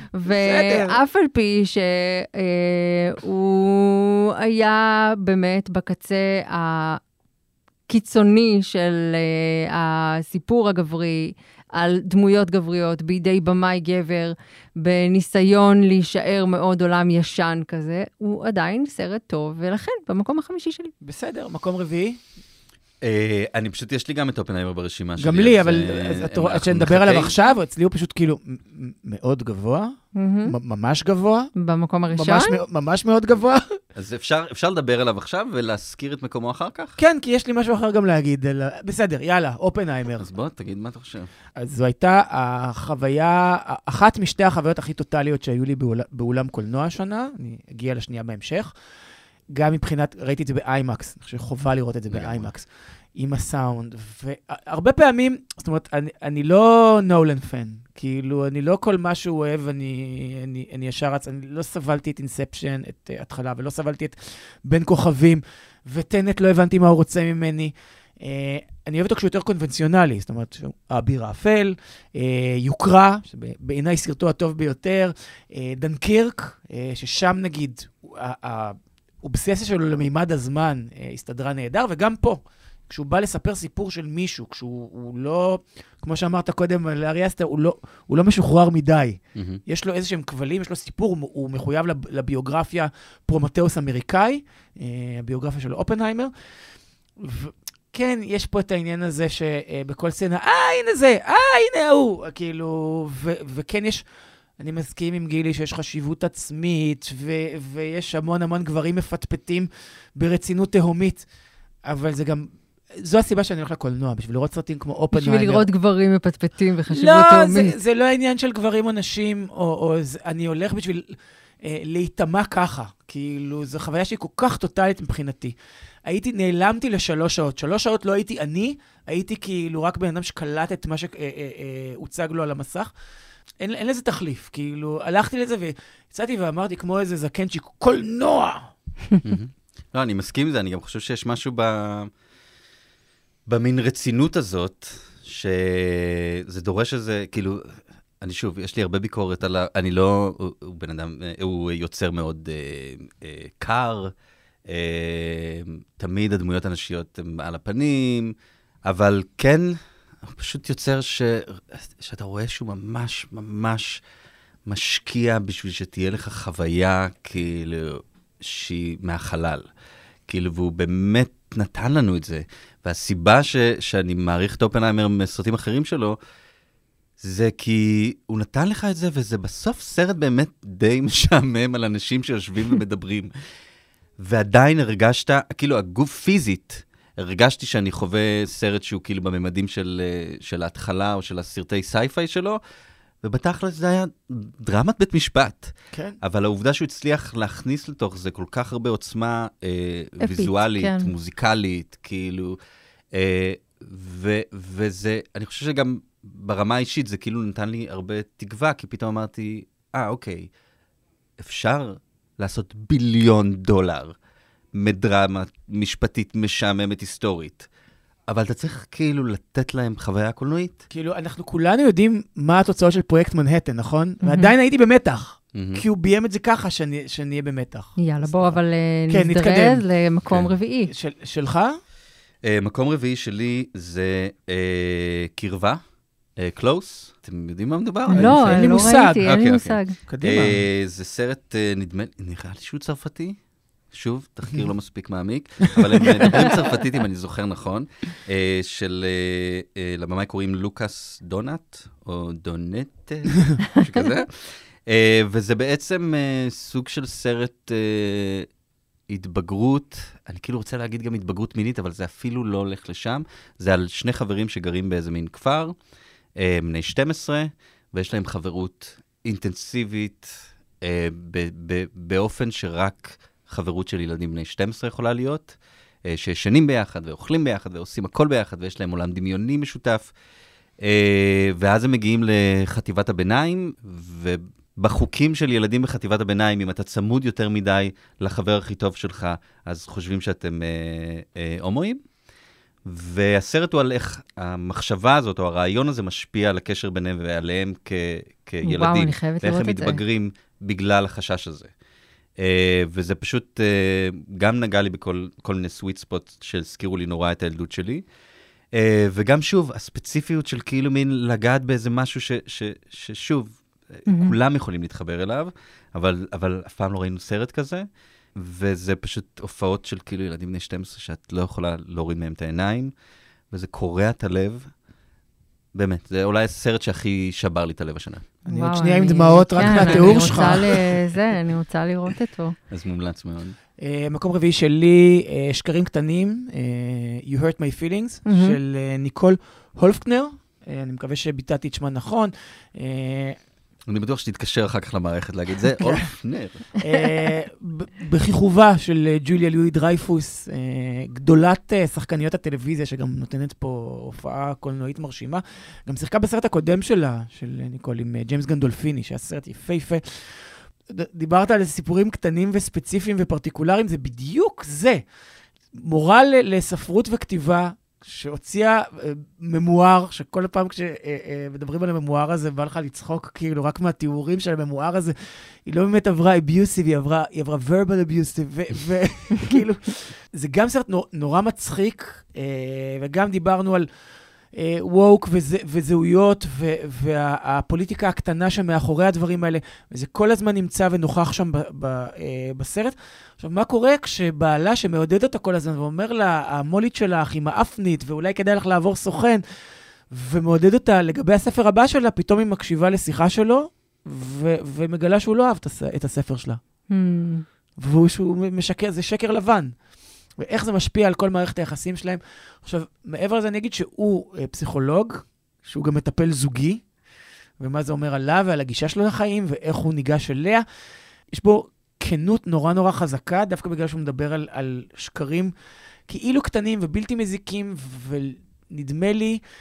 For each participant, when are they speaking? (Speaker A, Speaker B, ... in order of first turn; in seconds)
Speaker A: 0.1-7.0, 7.9-20.9, 30.1-30.6, 31.6-32.6, 115.1-117.8, 200.2-201.1, 224.2-224.5, 228.0-230.9, 238.1-239.9, 298.6-300.0, 314.1-314.3, 328.5-332.5, 338.3-338.6, 406.9-407.4
Speaker B: 0.3-1.0, 21.0-22.2, 25.2-31.5, 32.1-33.6, 37.0-40.3, 41.5-48.7, 49.5-96.3, 97.2-104.0, 104.6-111.2, 111.8-115.7, 116.9-132.9, 133.6-138.7, 195.9-196.2, 220.9-229.8, 230.9-231.8, 238.1-239.3, 240.1-240.6, 246.0-246.5, 328.5-330.8, 333.8-343.4, 345.8-346.0, 346.8-365.0, 365.7-383.9, 384.5-399.4, 400.1-406.6, 407.8-409.7, 410.4-416.8, 417.6-420.6, 421.3-425.5, 426.1-429.4
Speaker C: 23.0-27.3, 34.0-37.0, 40.2-41.3, 52.1-52.5, 89.3-89.6, 139.2-142.1, 143.4-154.1, 154.7-158.3, 158.8-164.0, 164.7-169.6, 170.3-176.2, 177.2-183.3, 184.2-192.6, 193.2-202.6, 203.1-210.5, 211.4-214.1, 214.7-217.7, 218.3-220.8, 225.5-225.8, 232.4-235.8, 236.4-243.4, 243.9-258.5, 259.1-265.7, 266.4-280.1, 280.8-292.0, 292.9-301.7, 302.4-308.0, 308.7-317.8, 318.4-322.9, 323.5-324.7, 325.7-328.3, 329.6-330.6, 332.7-333.6, 343.9-346.6